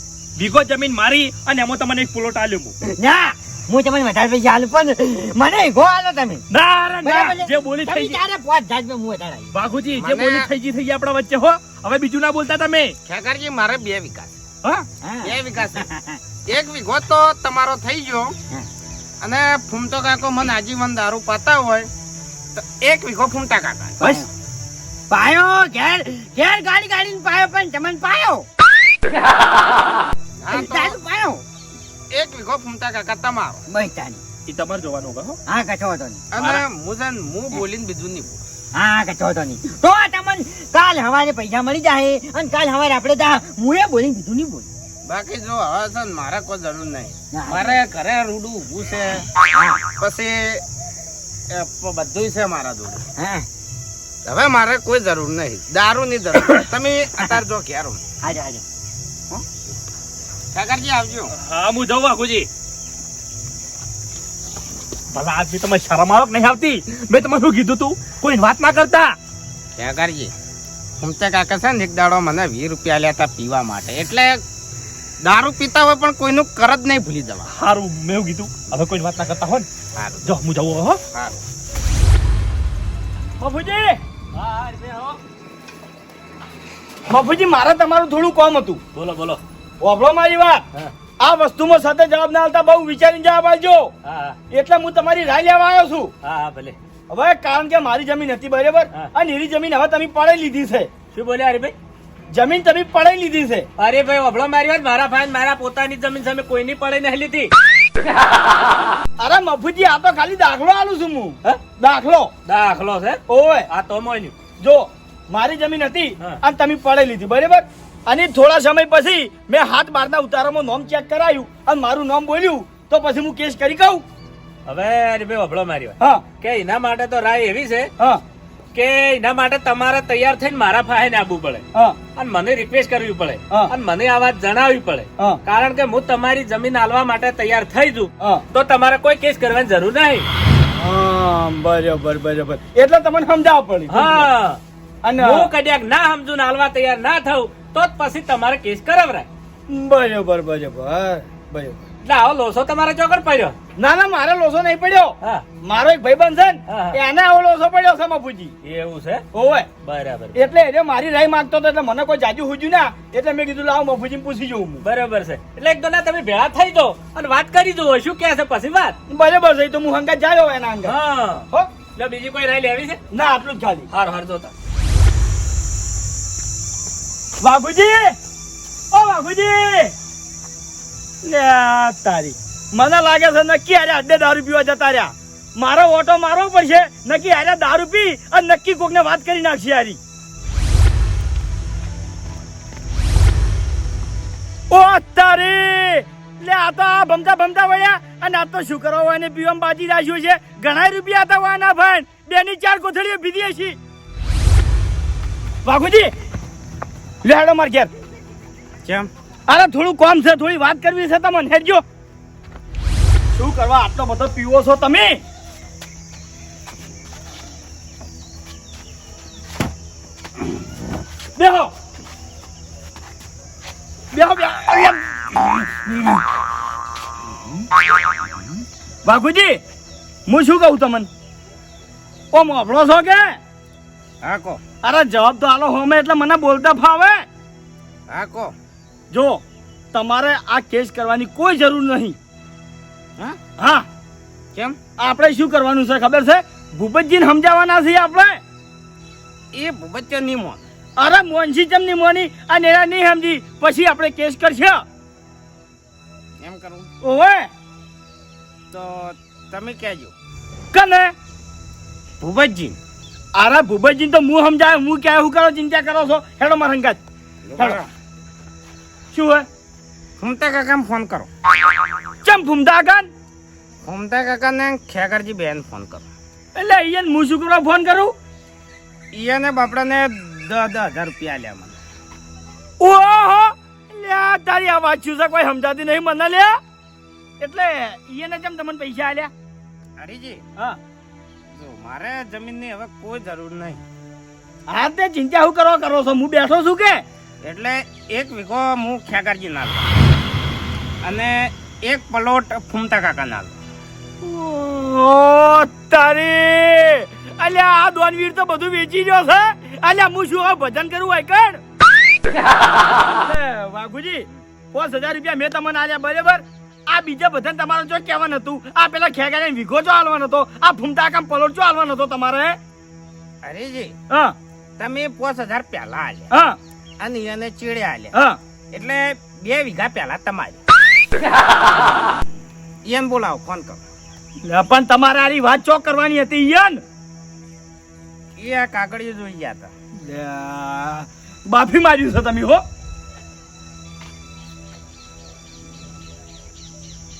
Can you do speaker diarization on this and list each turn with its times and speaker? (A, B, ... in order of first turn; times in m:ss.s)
0:00.4-0:02.7 A
0:02.8-0:06.4 B
0:06.5-0:08.2 A
0:07.0-0:09.5 B
0:09.5-0:12.9 A
0:09.9-0:10.5 C
0:13.0-0:14.3 C
0:15.0-0:16.2 B
0:15.2-0:15.9 C
0:16.5-0:18.3 C
0:19.2-0:21.9 C
0:22.5-0:24.2 C
0:24.0-0:24.3 B
0:25.1-0:28.5 B
0:30.4-0:31.0 C
0:30.5-0:31.4 B
0:32.1-0:33.6 C
0:33.7-0:34.2 B
0:34.5-0:35.4 A
0:35.5-0:36.2 B
0:36.3-0:38.4 C
0:36.4-0:36.6 A
0:38.7-0:44.7 B
0:45.0-0:49.2 C
0:47.3-0:47.8 B
0:49.5-0:49.8 B
0:49.9-0:50.6 C
0:51.5-0:53.0 C
0:53.2-0:53.5 B
0:54.3-0:58.0 C
0:58.2-0:58.6 B
1:00.5-1:01.3 C
1:01.3-1:02.5 A
1:05.1-1:09.1 A
1:09.8-1:10.3 C
1:11.0-1:14.4 C
1:15.2-1:17.5 C
1:17.5-1:19.6 A
1:20.0-1:20.4 C
1:20.2-1:21.0 A
1:21.1-1:21.4 C
1:23.4-1:24.0 D
1:24.3-1:25.2 E
1:27.1-1:28.8 D
1:28.9-1:29.4 E
1:29.8-1:30.6 D
1:31.2-1:33.9 D
1:34.0-1:34.4 E
1:34.5-1:36.1 D
1:36.2-1:36.8 E
1:37.1-1:40.9 D
1:41.1-1:41.7 E
1:42.3-1:43.7 D
1:43.8-1:47.5 E
1:49.2-1:52.3 D
1:52.4-1:54.3 E
1:53.3-1:53.7 D
1:54.6-2:04.0 D
2:04.6-2:07.9 E
2:08.7-2:11.6 E
2:12.2-2:20.3 E
2:20.7-2:24.3 D
2:23.9-2:24.6 E
2:25.0-2:25.5 D
2:25.2-2:29.3 E
2:29.7-2:31.8 D
2:32.0-2:33.6 E
2:33.8-2:38.5 D
2:36.7-2:37.0 E
2:38.6-2:39.2 E
2:39.3-2:39.7 D
2:39.8-2:40.4 E
2:40.4-2:44.8 D
2:44.8-2:49.0 E
2:49.1-2:51.0 D
2:50.8-2:53.0 E
2:53.1-2:53.9 D
2:53.9-2:54.5 E
2:57.4-2:58.1 D
2:58.9-2:59.9 D
3:01.2-3:10.0 D
3:14.7-3:23.8 D
3:25.6-3:26.1 D
3:27.2-3:27.9 D
3:29.5-3:31.8 D
3:33.3-3:35.2 D
3:41.4-3:41.7 D
3:44.1-3:46.2 D
3:49.0-3:49.6 D
3:50.3-3:51.1 D
3:52.3-3:53.4 D
3:54.2-3:54.6 C
3:54.8-3:57.2 D
3:58.1-3:58.5 C
3:59.1-3:59.4 D
3:59.9-4:02.2 D
4:03.6-4:03.9 D
4:05.0-4:08.4 D
4:09.5-4:10.6 C
4:11.0-4:14.8 D
4:16.4-4:16.9 C
4:17.0-4:17.5 D
4:18.7-4:20.1 C
4:20.7-4:21.1 D
4:22.2-4:22.8 C
4:23.4-4:27.0 D
4:27.4-4:27.9 C
4:29.1-4:29.4 D
4:30.2-4:31.3 C
4:32.2-4:33.1 D
4:33.8-4:36.1 C
4:36.5-4:38.1 D
4:39.1-4:41.8 C
4:42.8-4:46.6 D
4:47.4-4:49.3 D
4:50.0-4:50.4 C
4:51.5-4:53.8 C
4:54.7-4:57.0 D
4:57.4-4:59.9 C
5:01.0-5:03.6 C
5:04.2-5:11.6 D
5:13.2-5:22.6 D
5:23.4-5:24.0 C
5:24.1-5:24.4 D
5:24.8-5:26.3 C
5:26.3-5:26.6 D
5:27.0-5:28.2 C
5:28.7-5:30.6 C
5:32.8-5:33.8 C
5:34.4-5:36.8 D
5:38.4-5:39.7 C
5:39.9-5:42.6 D